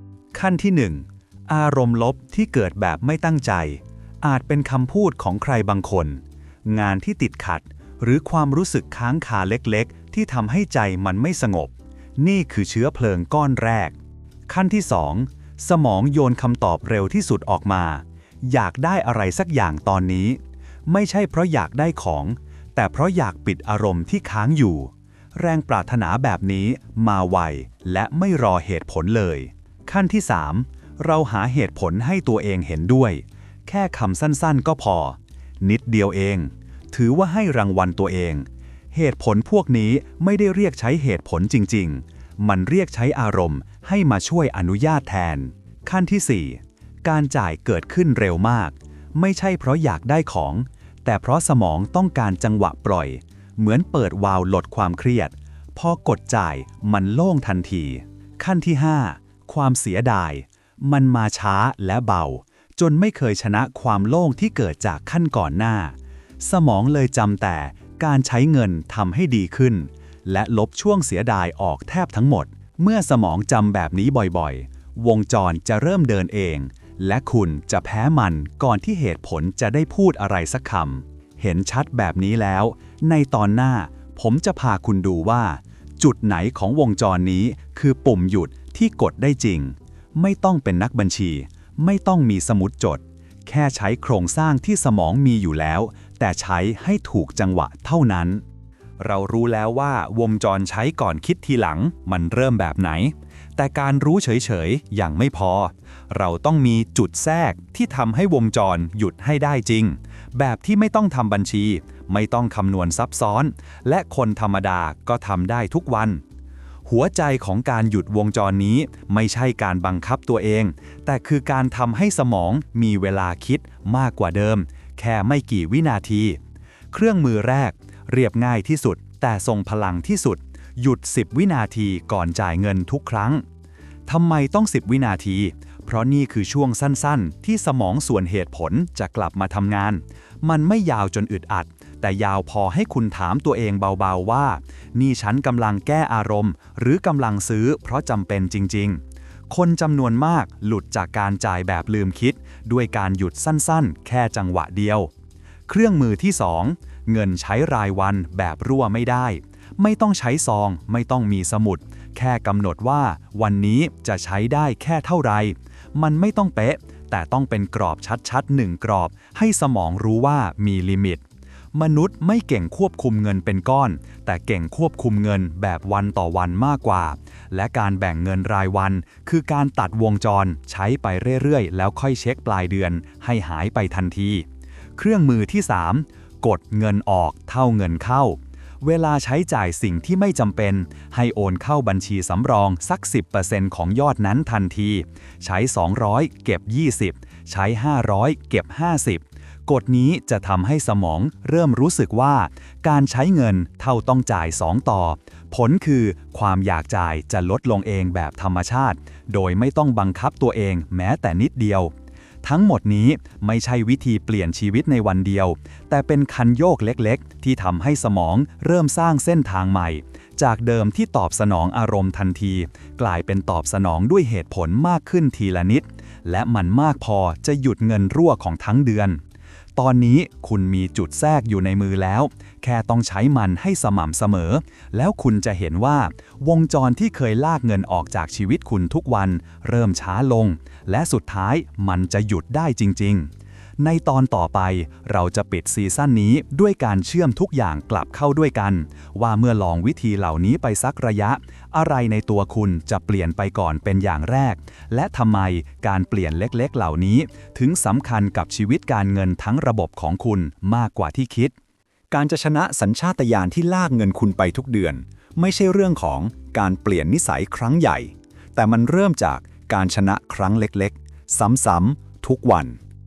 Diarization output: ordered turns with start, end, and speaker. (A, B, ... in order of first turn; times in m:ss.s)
0:00.3-0:13.9 A
0:14.5-1:38.4 A
1:39.0-1:56.2 A
1:56.8-2:06.4 A
2:06.9-2:13.4 A
2:14.1-2:35.1 A
2:35.7-3:49.2 A
3:49.8-4:21.6 A
4:22.1-4:32.8 A